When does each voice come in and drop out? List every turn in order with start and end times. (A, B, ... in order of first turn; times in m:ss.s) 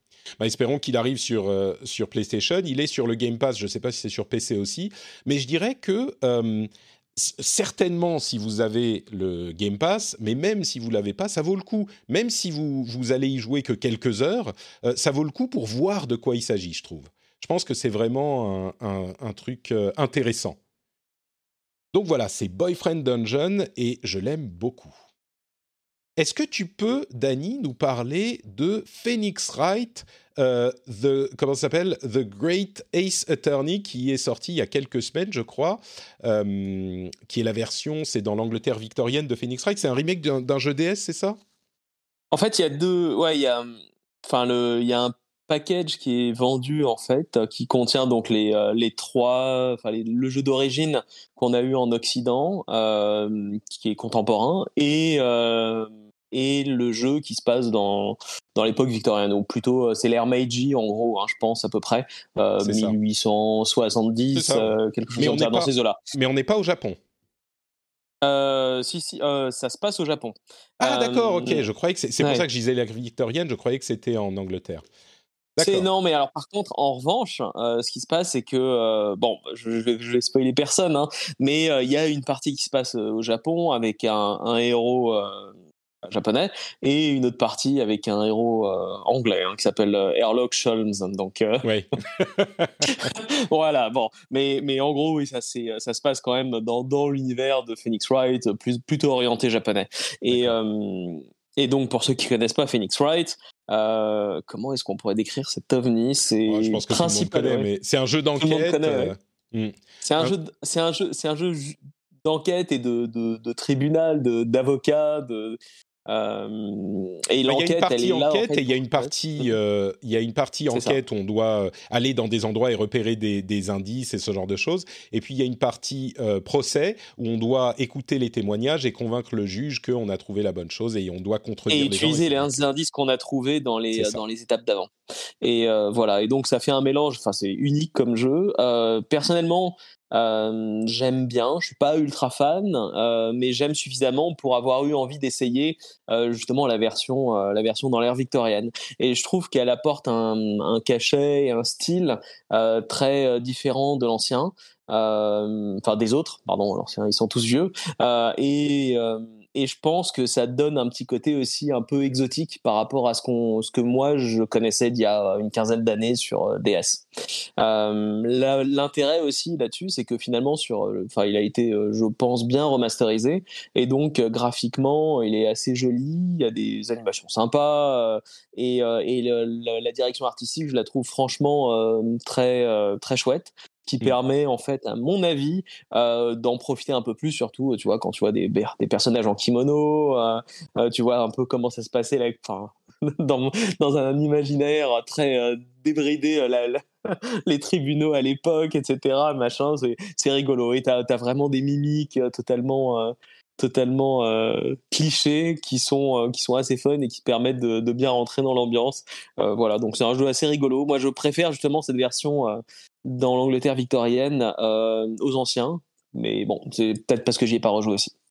0:00.4-0:20.6 A
0:21.9-0:24.9 A
0:26.2-0:41.4 A
0:42.3-1:06.0 B
1:02.6-1:03.0 A
1:04.3-1:07.0 A
1:08.2-1:11.6 B
1:10.8-1:14.8 A
1:15.6-1:15.8 A
1:15.6-1:25.5 B
1:26.0-1:31.6 B
1:31.6-1:32.8 A
1:32.9-1:47.7 B
1:40.3-1:40.5 A
1:46.5-1:50.3 A
1:48.4-1:49.1 B
1:50.0-1:55.6 B
1:56.1-1:59.5 B
1:57.5-2:12.5 A
2:00.7-2:01.0 B
2:11.7-2:14.9 B
2:13.9-2:14.2 A
2:15.4-2:47.0 B
2:47.6-3:38.1 B